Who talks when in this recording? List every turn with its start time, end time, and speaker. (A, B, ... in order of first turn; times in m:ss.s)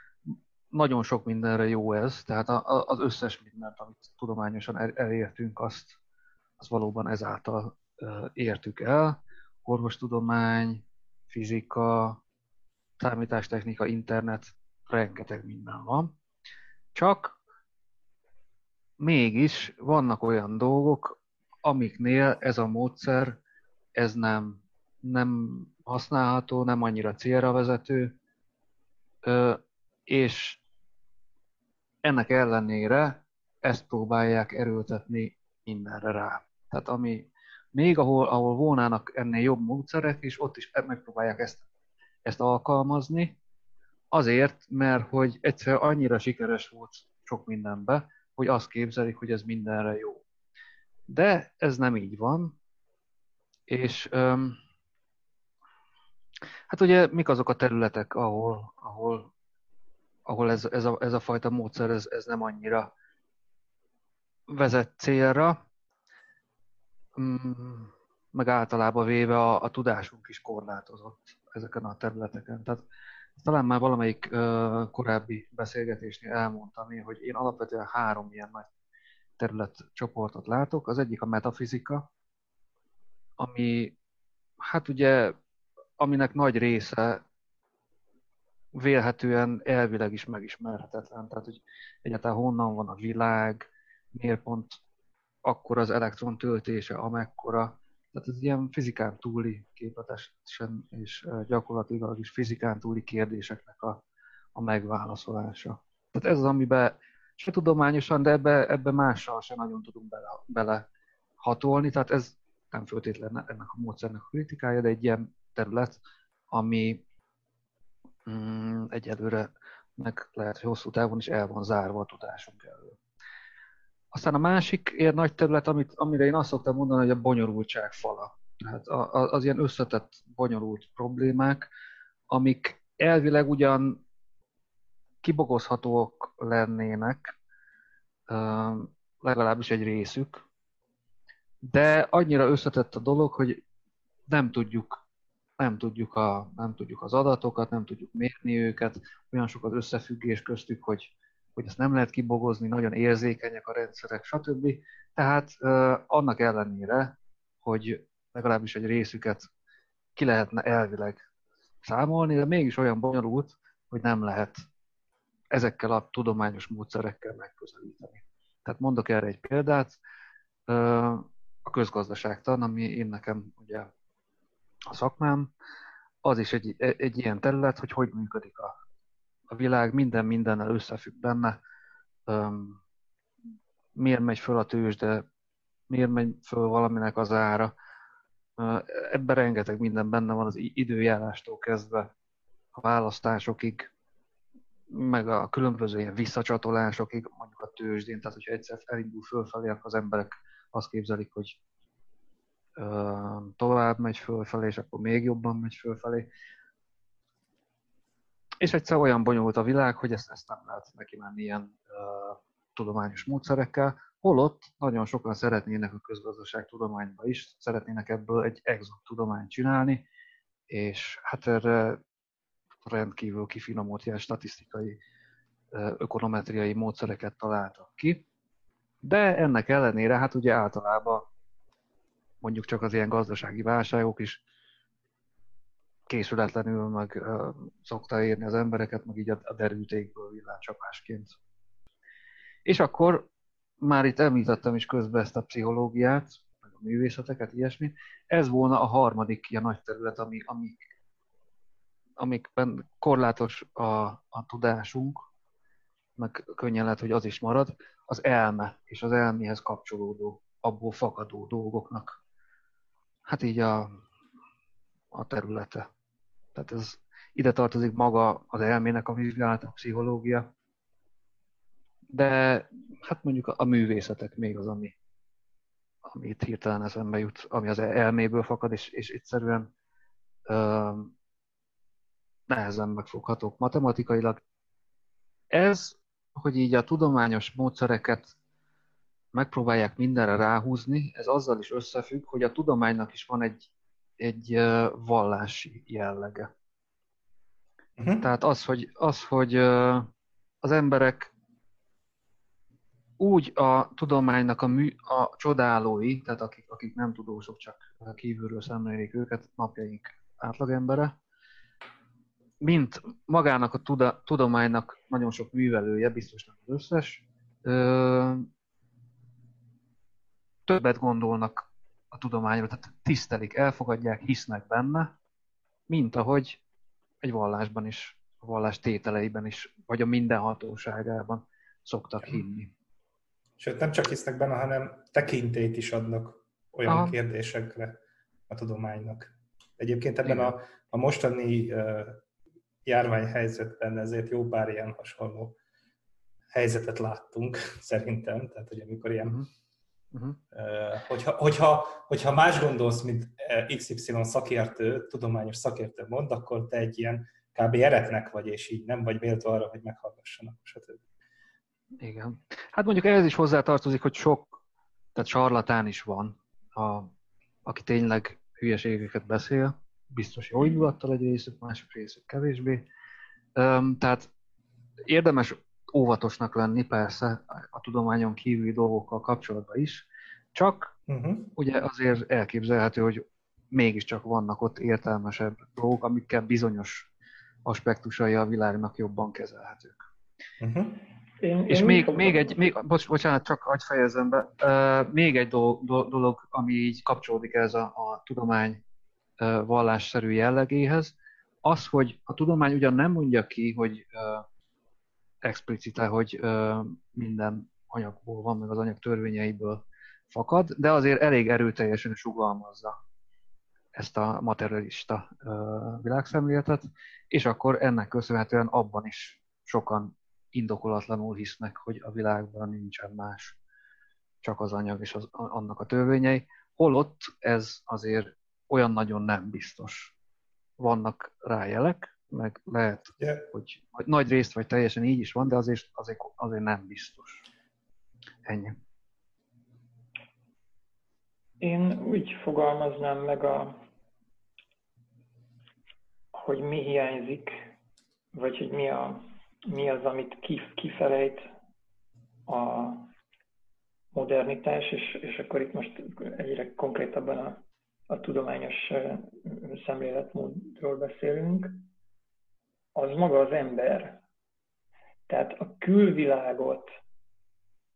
0:00.3-0:06.0 A
0:06.6-0:12.2 A
0:13.0-0:16.1 A
0:16.9-0:17.4 A
0:19.0-0:23.4 A
0:24.0-0:28.1 A
0:29.2-0:30.6 A
0:32.0-0:41.6 A
0:42.2-0:43.4 A
0:44.1-0:50.2 A
0:51.1-0:52.6 A
0:53.7-0:54.6 A
0:56.7-0:59.3 A
1:00.2-1:02.9 A
1:04.5-1:05.6 A
1:07.2-1:12.8 A
1:13.4-1:18.7 A
1:19.4-1:22.1 A
1:23.4-1:23.9 A
1:24.6-1:25.4 A
1:26.0-1:27.2 A
1:28.7-1:34.8 A
1:35.4-1:44.0 A
1:44.5-1:50.8 A
1:51.4-1:56.0 A
1:56.5-1:57.0 A
1:58.2-2:03.0 A
2:04.1-2:11.7 A
2:12.3-2:14.0 A
2:15.2-2:17.3 A
2:18.3-2:20.4 A
2:21.6-2:23.6 A
2:24.3-2:25.0 A
2:25.6-2:39.5 A
2:40.2-2:41.2 A
2:41.8-2:44.6 A
2:45.5-2:50.0 A
2:50.7-2:53.9 A
2:54.9-2:55.5 A
2:56.2-2:58.7 A
2:59.5-3:01.6 A
3:02.3-3:02.8 A
3:03.9-3:05.2 A
3:05.9-3:07.7 A
3:08.6-3:12.1 A
3:12.7-3:13.9 A
3:14.9-3:21.6 A
3:22.8-3:26.3 A
3:28.6-3:40.0 A
3:40.7-3:42.0 A
3:42.8-3:45.0 A
3:45.7-3:48.2 A
3:49.0-3:51.3 A
3:52.4-3:54.4 A
3:56.1-4:01.4 A
4:02.6-4:03.3 A
4:03.8-4:10.8 A
4:12.2-4:15.2 A
4:16.2-4:22.2 A
4:23.2-4:23.9 A
4:25.1-4:25.9 A
4:26.5-4:30.5 A
4:32.1-4:34.9 A
4:36.0-4:39.7 A
4:40.5-4:41.1 A
4:42.5-4:44.4 A
4:45.5-4:48.3 A
4:49.3-4:56.5 A
4:58.0-4:58.2 B
4:58.2-5:00.1 A
5:00.6-5:01.3 A
5:03.2-5:11.2 A
5:12.6-5:18.5 A
5:20.7-5:25.1 A
5:25.9-5:26.6 A
5:27.2-5:32.7 A
5:33.6-5:38.0 B
5:36.9-5:37.1 A
5:38.5-5:42.2 B
5:40.2-5:40.5 A
5:42.8-5:45.6 B
5:46.5-5:49.4 B
5:50.1-5:50.4 A
5:50.5-6:01.0 B
6:02.0-6:04.6 A
6:05.1-6:07.1 A
6:07.6-6:12.8 A
6:13.6-6:14.3 A
6:15.1-6:20.9 A
6:21.1-6:21.5 B
6:21.6-6:27.1 A
6:27.6-6:30.0 A
6:30.6-6:31.0 B
6:31.4-6:32.5 C
6:31.7-6:38.8 A
6:39.4-6:44.4 A
6:45.4-6:53.0 A
6:53.9-7:03.6 A
7:04.4-7:10.1 A
7:10.8-7:17.4 A
7:18.4-7:18.8 A
7:21.6-7:23.8 C
7:26.3-7:27.6 C
7:28.3-7:31.4 C
7:32.5-7:33.1 C
7:34.1-7:41.9 C
7:42.9-7:44.2 C
7:45.3-7:46.9 C